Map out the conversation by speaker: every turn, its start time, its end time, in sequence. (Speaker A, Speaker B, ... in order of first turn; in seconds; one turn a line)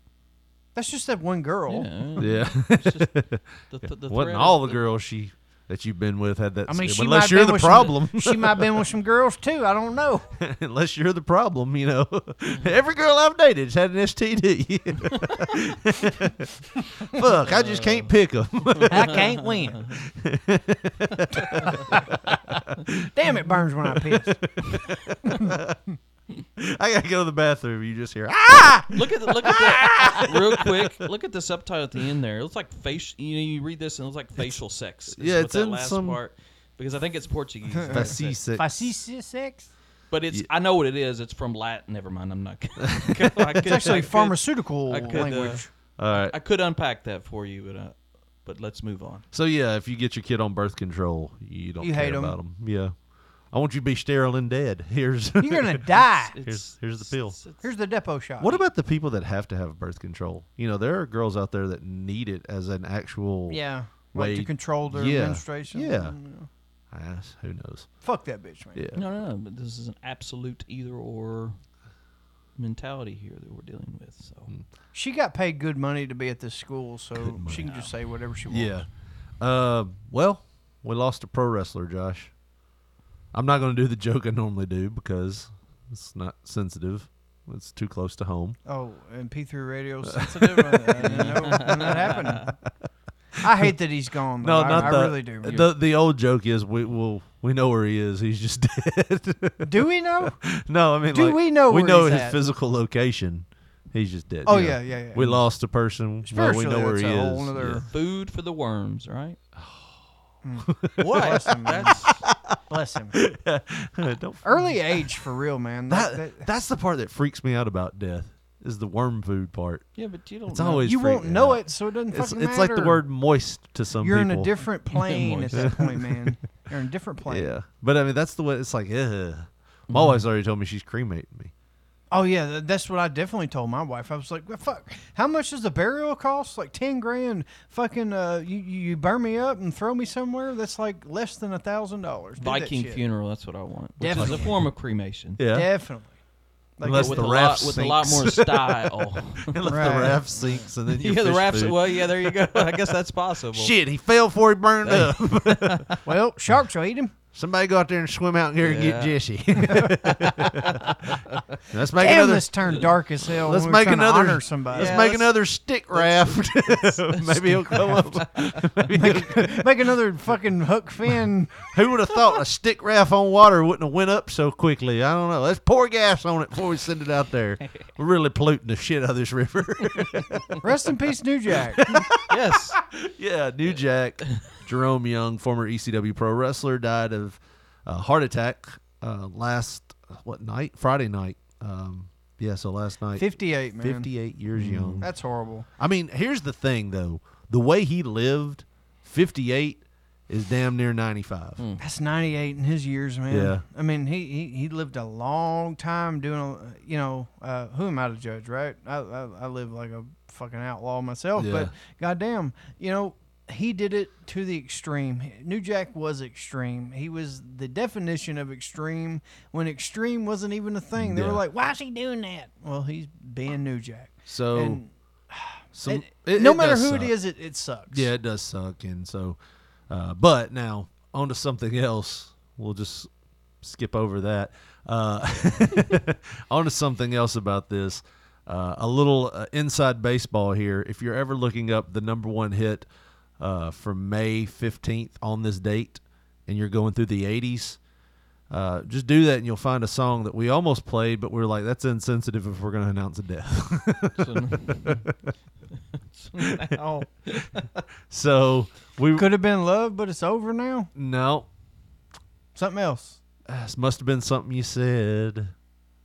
Speaker A: 0.7-1.9
Speaker B: 1.7-3.2
Speaker C: 2.2-8.8
Speaker B: 3.7-4.8
Speaker A: 6.7-10.3
Speaker C: 10.4-16.5
Speaker C: 17.0-19.2
Speaker B: 17.4-18.1
Speaker A: 18.9-19.9
Speaker C: 20.0-22.0
Speaker A: 21.7-22.0
Speaker C: 22.7-23.0
Speaker A: 23.1-24.5
Speaker A: 25.2-25.6
Speaker C: 25.3-25.8
Speaker C: 26.6-30.8
Speaker B: 28.9-38.3
Speaker C: 35.1-36.2
Speaker A: 37.9-39.7
Speaker C: 37.9-38.9
Speaker B: 40.1-45.6
Speaker C: 42.8-44.0
Speaker A: 43.6-45.7
Speaker C: 46.0-46.4
Speaker B: 46.1-49.2
Speaker C: 49.3-52.9
Speaker A: 51.8-52.4
Speaker C: 53.5-55.9
Speaker A: 55.4-56.3
Speaker B: 56.3-57.6
Speaker C: 56.4-57.4
Speaker A: 57.6-58.6
Speaker C: 58.4-63.6
Speaker A: 63.5-66.5
Speaker C: 64.1-66.2
Speaker C: 66.9-67.9
Speaker A: 68.0-68.8
Speaker C: 68.7-69.0
Speaker B: 68.9-71.5
Speaker B: 72.6-74.5
Speaker A: 74.9-78.8
Speaker C: 77.2-77.8
Speaker C: 78.5-78.8
Speaker C: 79.4-82.3
Speaker C: 83.3-88.6
Speaker A: 88.7-92.5
Speaker C: 90.0-91.9
Speaker B: 91.0-92.5
Speaker A: 93.4-95.7
Speaker C: 94.4-99.7
Speaker A: 99.6-100.3
Speaker C: 100.2-107.8
Speaker A: 101.1-102.4
Speaker A: 104.5-105.4
Speaker A: 106.2-107.9
Speaker B: 107.9-109.4
Speaker A: 110.4-112.0
Speaker C: 110.7-112.3
Speaker B: 111.0-112.2
Speaker A: 112.7-113.2
Speaker C: 113.1-114.8
Speaker A: 114.4-116.4
Speaker C: 115.9-119.9
Speaker B: 120.0-120.9
Speaker C: 120.5-124.5
Speaker A: 120.8-123.0
Speaker A: 124.0-127.5
Speaker B: 124.9-125.8
Speaker C: 125.5-125.9
Speaker C: 127.3-131.5
Speaker B: 129.9-130.2
Speaker A: 132.1-143.0
Speaker B: 142.4-145.4
Speaker A: 144.0-144.5
Speaker C: 144.0-144.7
Speaker C: 145.4-145.7
Speaker A: 145.5-146.1
Speaker A: 146.8-147.3
Speaker C: 146.8-152.4
Speaker B: 146.9-149.6
Speaker A: 149.7-150.2
Speaker B: 150.4-153.7
Speaker C: 153.5-155.9
Speaker B: 154.8-156.0
Speaker A: 156.0-157.1
Speaker C: 157.3-160.9
Speaker B: 158.6-159.2
Speaker B: 160.7-161.1
Speaker C: 161.7-162.7
Speaker A: 162.0-165.0
Speaker C: 163.4-169.5
Speaker B: 164.7-165.4
Speaker B: 165.9-168.8
Speaker A: 168.9-171.6
Speaker C: 171.7-180.6
Speaker A: 180.6-182.0
Speaker C: 181.8-195.1
Speaker B: 182.3-182.8
Speaker A: 193.2-194.1
Speaker B: 194.5-195.1
Speaker A: 195.0-195.7
Speaker C: 195.8-201.6
Speaker A: 201.8-228.1
Speaker C: 203.3-203.6
Speaker C: 211.3-211.7
Speaker C: 220.9-221.4
Speaker C: 224.3-224.8
Speaker C: 225.7-227.1
Speaker C: 227.9-229.4
Speaker C: 229.9-233.1
Speaker C: 233.6-242.9
Speaker C: 243.4-247.8
Speaker C: 248.5-255.1
Speaker B: 254.2-255.0
Speaker B: 256.1-257.6
Speaker C: 256.4-256.8
Speaker C: 258.1-259.3
Speaker A: 259.1-260.9
Speaker C: 260.9-261.5
Speaker A: 262.5-263.2
Speaker C: 263.4-265.5